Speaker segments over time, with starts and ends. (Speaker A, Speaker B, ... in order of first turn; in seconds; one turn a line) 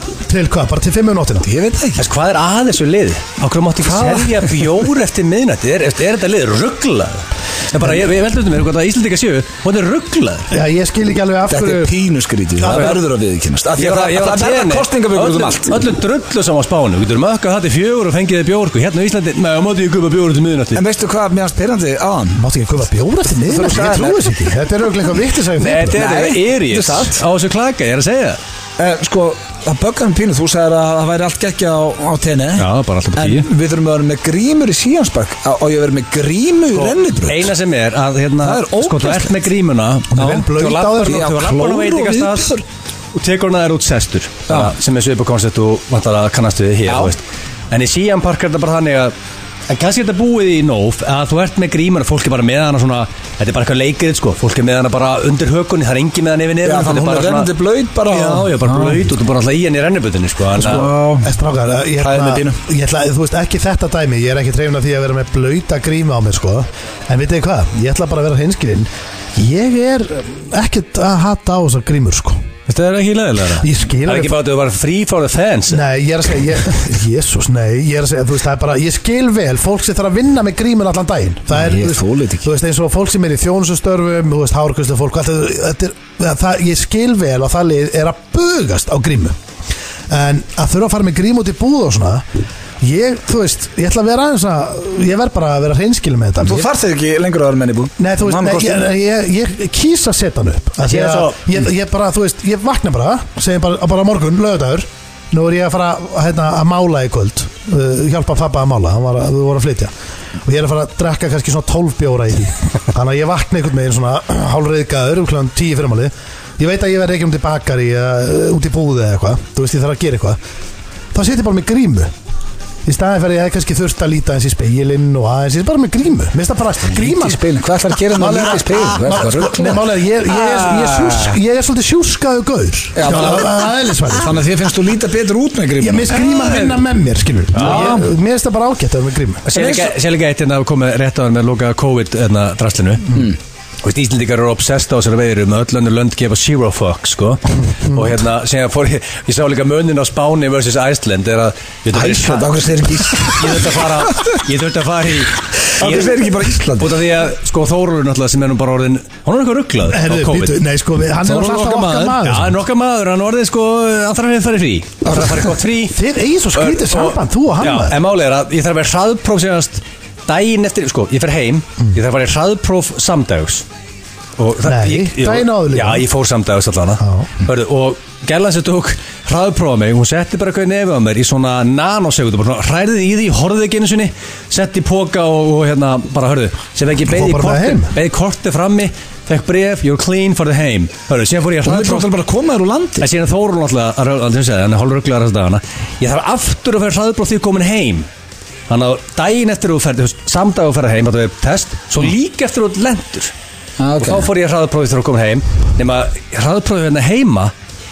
Speaker A: 0.3-1.5
Speaker B: 1.4-2.1
Speaker C: 2.0-10.5
Speaker A: 10.5-11.9
Speaker B: 11.5-15.9
Speaker A: 12.6-12.9
Speaker C: 12.7-12.9
Speaker C: 13.8-20.8
Speaker B: 20.8-22.4
Speaker A: 22.4-26.0
Speaker B: 23.5-24.4
Speaker C: 25.6-28.4
Speaker B: 25.9-27.2
Speaker B: 28.8-37.5
Speaker C: 32.6-33.5
Speaker C: 36.7-42.5
Speaker B: 38.4-39.4
Speaker A: 40.1-41.3
Speaker B: 40.2-40.5
Speaker B: 41.0-42.6
Speaker C: 43.1-49.1
Speaker B: 46.9-47.1
Speaker C: 49.7-57.5
Speaker B: 56.6-59.0
Speaker C: 58.1-60.9
Speaker B: 60.6-61.3
Speaker A: 61.2-72.4
Speaker B: 62.0-62.6
Speaker C: 72.7-75.8
Speaker A: 73.6-74.4
Speaker A: 75.7-89.3
Speaker B: 81.5-82.5
Speaker A: 90.1-92.2
Speaker A: 92.8-96.7
Speaker B: 96.4-98.8
Speaker A: 98.0-109.9
Speaker C: 100.8-101.4
Speaker A: 110.4-120.4
Speaker A: 121.1-122.1
Speaker A: 122.8-127.4
Speaker B: 126.9-129.8
Speaker A: 128.1-134.4
Speaker C: 130.3-131.3
Speaker B: 132.9-136.2
Speaker A: 135.8-139.5
Speaker C: 136.2-136.7
Speaker C: 137.5-138.0
Speaker B: 137.6-138.1
Speaker C: 139.5-143.3
Speaker B: 139.5-139.9
Speaker C: 143.8-152.5
Speaker B: 151.9-154.3
Speaker C: 153.1-160.6
Speaker B: 155.8-156.9
Speaker A: 159.9-162.6
Speaker C: 161.2-166.0
Speaker A: 165.9-168.0
Speaker C: 166.6-173.7
Speaker C: 174.4-192.1
Speaker A: 174.7-176.1
Speaker A: 177.0-177.3
Speaker A: 187.1-187.9
Speaker B: 191.6-193.1
Speaker C: 193.0-198.1
Speaker C: 198.7-203.3
Speaker B: 203.8-204.3
Speaker C: 204.0-207.5